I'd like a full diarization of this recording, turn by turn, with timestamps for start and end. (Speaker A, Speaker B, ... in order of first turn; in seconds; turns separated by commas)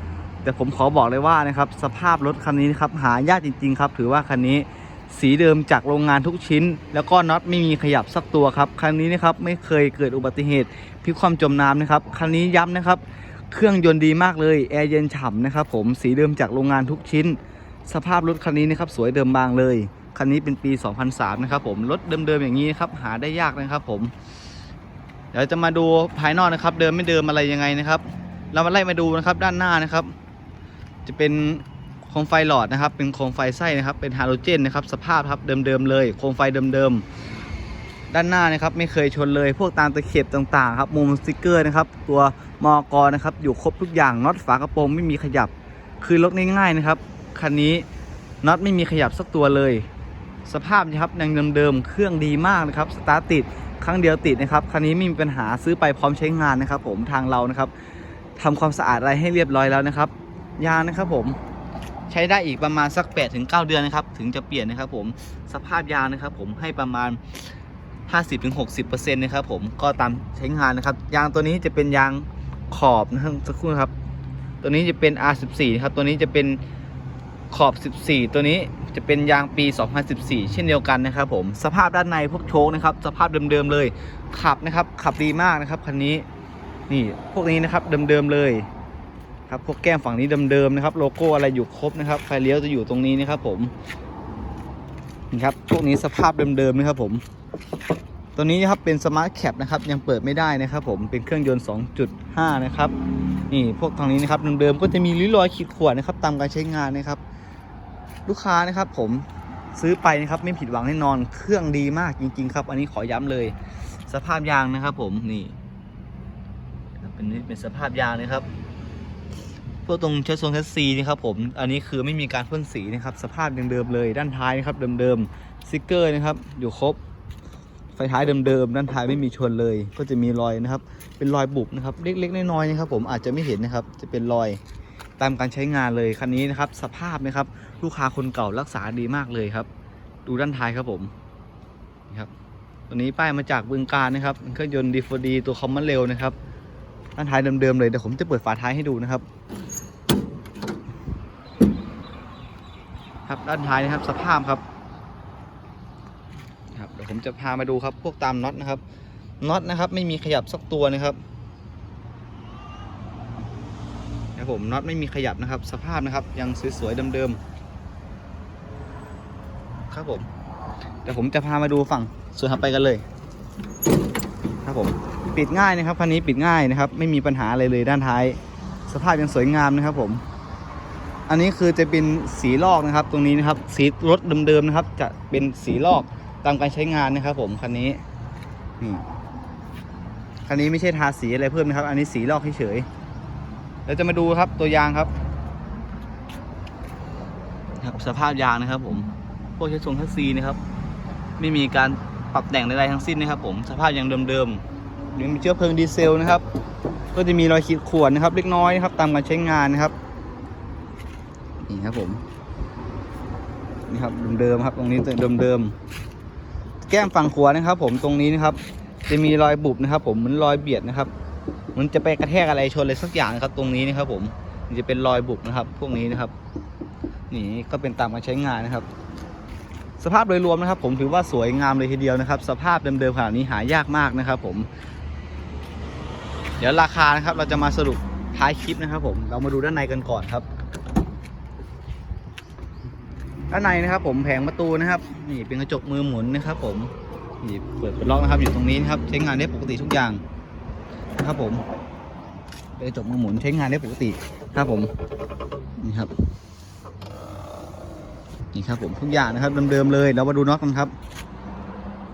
Speaker A: 0.4-24.1, Speaker A: 25.3-30.1, Speaker A: 31.1-37.0, Speaker A: 38.1-47.9, Speaker A: 48.4-49.9, Speaker A: 50.5-57.7, Speaker A: 58.4-61.4, Speaker A: 62.1-67.4, Speaker A: 68.1-73.9, Speaker A: 74.6-76.6, Speaker A: 77.5-86.2, Speaker A: 86.9-88.7, Speaker A: 89.5-93.7, Speaker A: 95.3-97.2, Speaker A: 98.4-102.9, Speaker A: 103.5-107.2, Speaker A: 108.3-113.5, Speaker A: 114.1-115.5, Speaker A: 117.0-118.5, Speaker A: 119.9-127.0, Speaker A: 128.0-134.6, Speaker A: 135.2-139.7, Speaker A: 140.3-141.1, Speaker A: 142.9-146.3, Speaker A: 147.2-149.2, Speaker A: 153.3-154.6, Speaker A: 156.7-158.8, Speaker A: 159.4-161.2, Speaker A: 164.4-167.4, Speaker A: 169.9-170.3, Speaker A: 171.1-173.1, Speaker A: 174.6-180.2, Speaker A: 181.3-188.0, Speaker A: 190.5-192.9, Speaker A: 193.9-195.1, Speaker A: 197.8-200.6, Speaker A: 201.4-204.6, Speaker A: 205.2-206.4, Speaker A: 207.1-209.9, Speaker A: 211.6-212.2, Speaker A: 213.9-215.8, Speaker A: 216.9-221.1, Speaker A: 221.8-226.3, Speaker A: 227.3-228.9, Speaker A: 230.0-234.7, Speaker A: 236.6-240.5, Speaker A: 243.5-250.2, Speaker A: 251.2-251.6, Speaker A: 252.8-254.9, Speaker A: 255.8-256.1, Speaker A: 258.5-260.9